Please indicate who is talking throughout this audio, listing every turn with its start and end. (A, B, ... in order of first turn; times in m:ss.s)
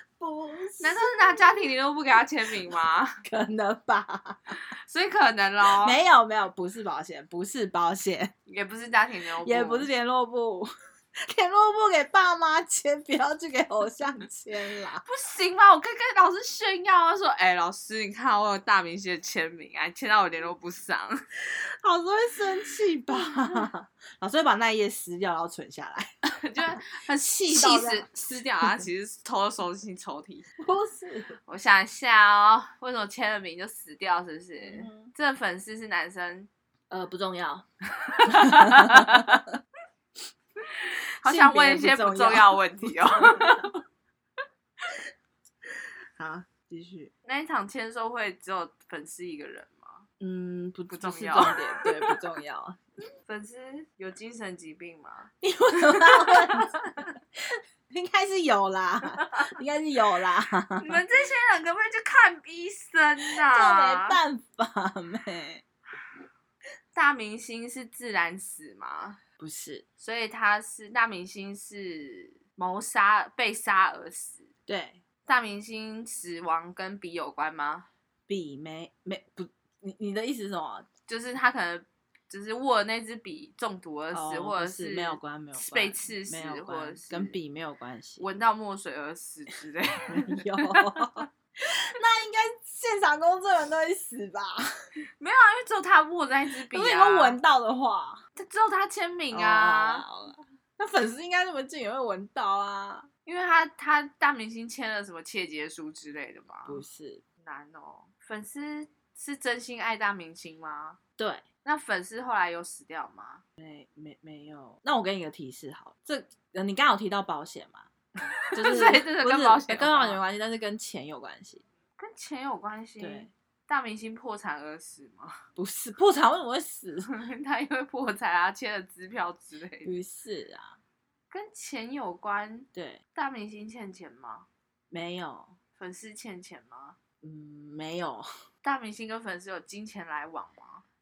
0:00.2-0:01.7 A
0:00.8-0:03.2 B
0:03.2-0:04.6 A
0:04.8-0:06.0 B
0:05.6-0:08.3 A
0:08.5-0:09.9 B
0:09.4-0:10.7 A
0:11.2-0:15.0 A
0:15.0-0:21.2 B
0:21.8-0:26.1 A
0:23.1-0:23.7 B
0:26.3-0:30.5 B
0:27.2-0:28.8 A
0:30.6-0:31.4 A
0:31.5-0:36.5 B
0:34.6-0:35.1 A
0:36.9-0:37.6 A
0:38.0-0:39.4 B
0:38.2-0:39.4 A
0:40.9-0:43.8 B
0:41.2-0:43.7 A
0:46.2-0:47.1 A
0:47.3-0:50.1 B
0:50.2-0:52.8 A
0:50.9-0:52.2 B
0:53.3-0:57.1 B
0:55.4-0:57.1 A
0:57.9-1:01.0 A
1:00.8-1:04.2 B
1:03.3-1:05.6 A
1:06.9-1:09.2 B
1:09.4-1:09.8 A
1:10.0-1:14.5 B
1:14.7-1:15.0 A
1:15.3-1:17.9 B
1:18.3-1:20.9 A
1:21.1-1:27.4 B
1:24.1-1:28.3 A
1:28.2-1:31.2 B
1:30.1-1:34.7 A
1:35.2-1:37.4 B
1:36.5-1:38.2 A
1:38.4-1:40.1 B
1:39.3-1:43.1 A
1:43.3-1:46.8 B
1:46.7-1:47.2 A
1:47.4-1:51.0 B
1:51.2-1:51.4 A
1:51.6-1:53.4 B
1:53.6-1:57.9 A
1:58.5-2:00.2 B
1:58.5-2:01.6 A
2:02.0-2:05.4 B
2:03.0-2:03.3 A
2:05.6-2:07.1 A
2:07.1-2:10.0 B
2:09.8-2:10.8 A
2:11.3-2:14.5 B
2:12.7-2:13.0 A
2:14.9-2:15.6 A
2:15.8-2:17.0 B
2:17.2-2:18.3 A
2:18.6-2:20.8 B